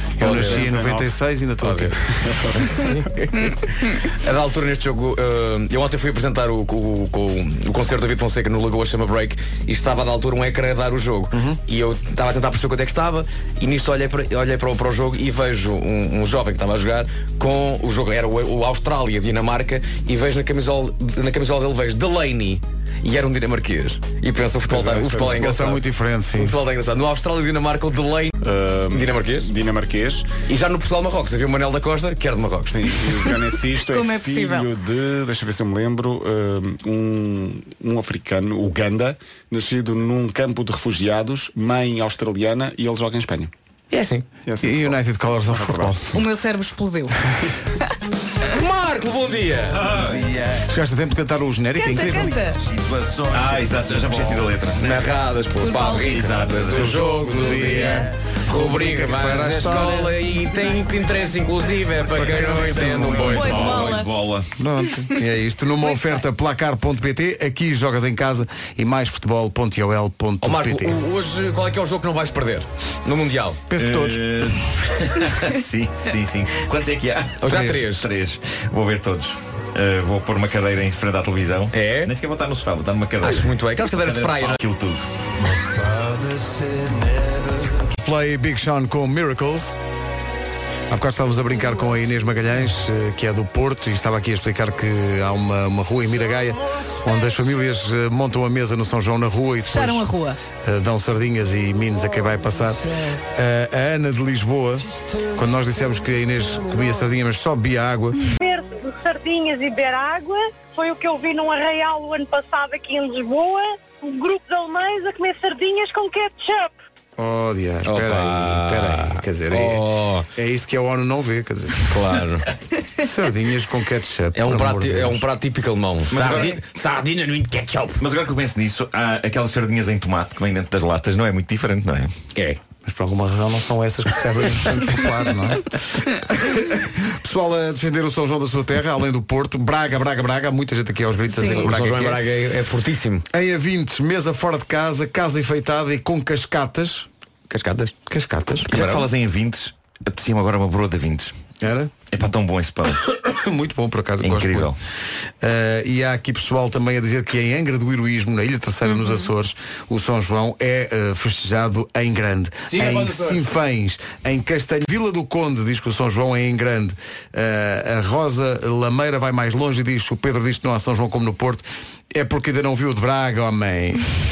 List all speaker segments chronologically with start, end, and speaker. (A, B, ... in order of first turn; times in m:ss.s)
0:00.2-0:02.0 A
0:00.2-0:00.7 B
0:00.2-0:01.1 C
0:01.6-0:02.0 B
0:02.2-0:02.9 C
0:02.5-0:28.4 B
0:11.3-0:11.6 A
0:24.7-0:25.3 C
0:25.2-0:26.6 A
0:28.4-0:30.3 C
0:28.9-0:29.5 B
0:30.5-0:33.0 B
0:32.7-0:43.5 C
0:33.9-0:34.7 D
0:43.9-0:44.2 B
0:44.4-0:45.0 C
0:44.6-0:46.2 A
0:45.5-0:45.9 C
0:46.1-0:47.2 D
0:48.4-0:50.0 B
0:49.8-0:50.6 E
0:50.6-0:52.5 A
0:51.8-0:52.6 D
0:52.5-0:55.1 E
0:54.8-1:03.9 B
0:55.6-0:56.3 D
0:55.9-0:58.0 E
0:56.6-1:00.3 A
1:02.1-1:04.5 E
1:02.1-1:03.5 A
1:03.2-1:04.1 D
1:04.6-1:11.0 A
1:10.4-1:13.6 B
1:13.7-1:14.3 A
1:13.7-1:25.0 E
1:17.4-1:18.1 B
1:17.4-1:17.9 A
1:21.7-1:22.1 B
1:23.2-1:24.6 B
1:26.6-1:26.9 E
1:28.0-1:29.7 A
1:30.9-1:40.1 A
1:39.7-1:40.4 D
1:40.6-1:48.2 A
1:48.4-1:56.8 F
1:57.2-2:02.2 A
1:57.8-2:00.3 B
2:01.8-2:02.5 B
2:03.0-2:05.2 A
2:04.3-2:08.0 B
2:06.1-2:06.6 E
2:08.0-2:12.1 E
2:12.8-2:22.2 A
2:21.3-2:21.6 D
2:21.4-2:23.2 B
2:23.3-2:27.1 A
2:27.5-2:27.9 B
2:28.1-2:28.7 A
2:28.6-2:31.3 E
2:28.7-2:29.0 B
2:31.6-2:31.9 A
2:32.1-2:33.0 E
2:33.2-2:34.7 A
2:34.2-2:34.8 E
2:35.4-2:54.1 A
2:42.7-2:43.4 B